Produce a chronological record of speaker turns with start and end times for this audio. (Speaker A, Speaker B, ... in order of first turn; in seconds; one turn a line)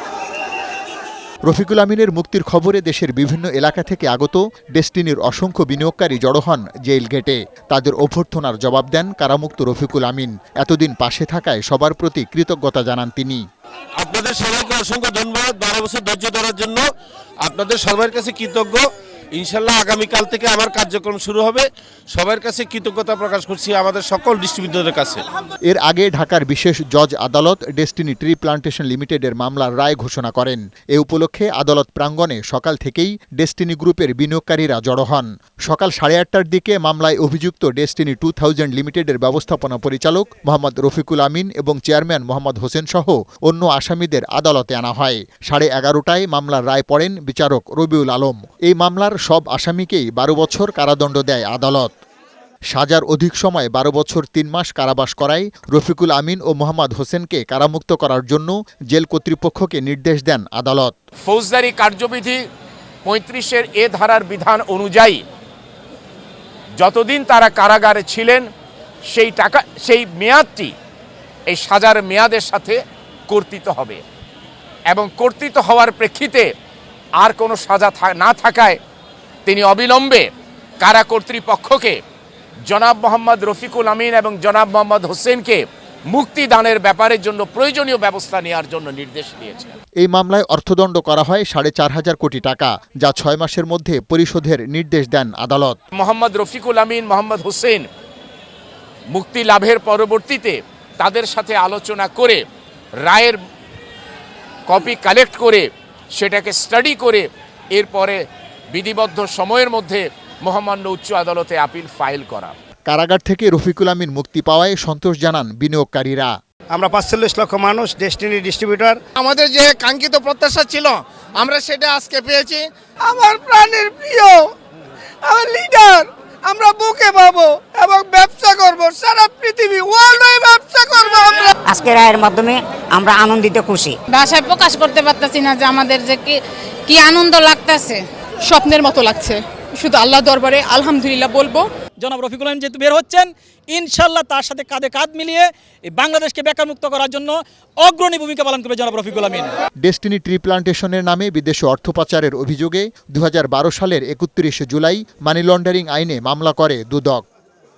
Speaker A: 1.5-13.4
Speaker B: 14.0-16.9
Speaker B: 17.4-18.9
Speaker B: 19.4-25.2
Speaker A: 25.7-51.9
Speaker A: 52.7-60.9
Speaker C: 61.2-62.4
Speaker C: 63.1-65.2
Speaker C: 66.8-68.5
Speaker C: 69.1-70.7
Speaker C: 71.5-74.0
Speaker C: 74.9-76.5
Speaker C: 77.2-78.8
Speaker C: 79.5-80.3
Speaker C: 80.8-82.0
Speaker C: 82.7-89.7
Speaker A: 90.0-95.8
Speaker C: 96.0-97.9
Speaker C: 99.1-102.4
Speaker C: 103.0-103.4
Speaker C: 104.7-108.2
Speaker C: 108.7-112.5
Speaker A: 112.9-116.3
Speaker D: 116.7-119.0
Speaker E: 119.2-122.6
Speaker E: 123.2-124.3
Speaker E: 125.3-131.5
Speaker F: 131.7-134.0
Speaker G: 134.2-138.0
Speaker H: 138.4-141.7
Speaker I: 142.0-149.5
Speaker A: 149.8-157.2